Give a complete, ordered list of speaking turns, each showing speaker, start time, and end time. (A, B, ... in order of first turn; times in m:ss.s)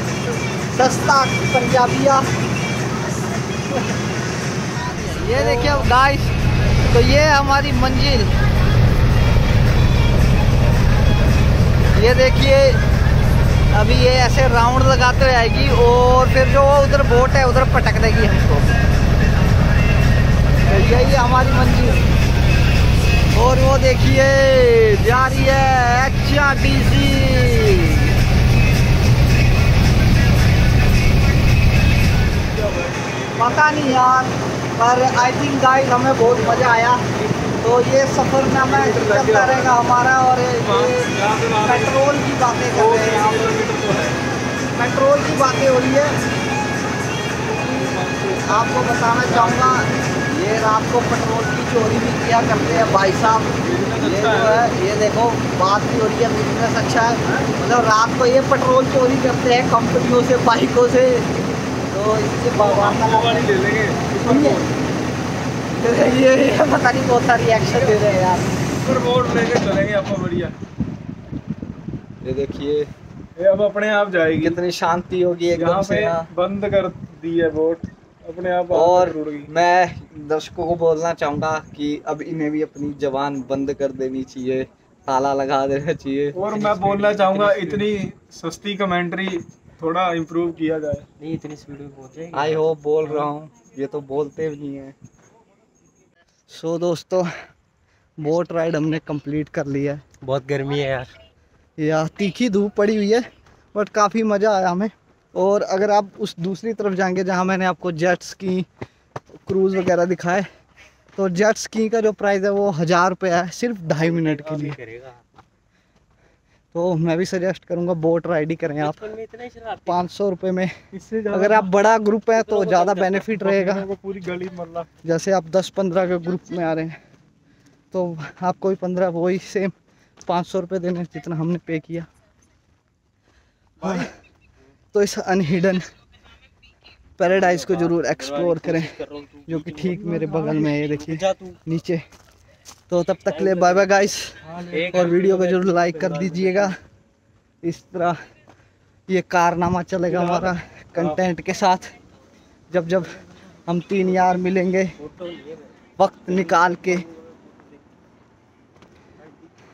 0:00.7-0:02.3 A
0:05.1-0:08.3 A
0:05.4-0:05.8 B
0:11.9-0:12.8 A
0:13.7-0:18.7 A
0:20.6-0:22.0 A
0:23.3-0:28.1 A
0:32.4-0:34.2 C
0:33.4-0:37.0 A
0:36.1-0:37.5 C
0:37.6-0:41.1 A
0:38.6-0:39.8 C
0:40.6-0:42.0 C
0:41.6-0:43.6 A
0:42.7-0:44.2 C
0:44.7-0:46.2 A
0:47.4-0:49.9 C
0:47.6-1:01.3 A
0:53.6-0:54.7 C
1:01.9-1:03.5 A
1:02.5-1:04.7 C
1:04.2-1:04.6 A
1:05.8-1:08.5 A
1:07.7-1:08.0 C
1:08.8-1:10.5 C
1:12.2-1:12.9 A
1:13.4-1:14.6 C
1:14.4-1:16.3 A
1:15.5-1:19.5 C
1:18.7-1:26.4 A
1:26.3-1:31.0 C
1:26.5-1:27.9 B
1:31.2-1:32.7 B
1:32.3-1:34.9 A
1:33.0-1:33.3 C
1:36.5-1:37.3 A
1:38.2-1:40.0 A
1:40.2-1:41.1 B
1:41.8-1:48.7 A
1:49.5-1:50.5 A
1:51.2-1:54.8 A
1:53.9-1:55.2 B
1:56.7-1:59.1 A
1:58.8-2:00.0 B
1:59.8-2:00.7 A
2:00.9-2:01.7 C
2:01.3-2:03.8 A
2:02.3-2:03.3 B
2:03.3-2:04.9 C
2:05.0-2:06.9 A
2:07.9-2:09.7 A
2:10.2-2:12.1 A
2:13.8-2:14.1 C
2:13.8-2:14.1 A
2:14.9-2:15.8 A
2:17.2-2:19.0 A
2:17.2-2:21.6 B
2:19.5-2:22.0 A
2:20.1-2:20.6 C
2:22.9-2:26.7 A
2:23.3-2:26.7 B
2:27.6-2:28.2 A
2:29.1-2:31.8 A
2:32.7-2:34.9 A
2:35.0-2:35.7 B
2:36.0-2:37.0 A
2:36.3-2:37.6 B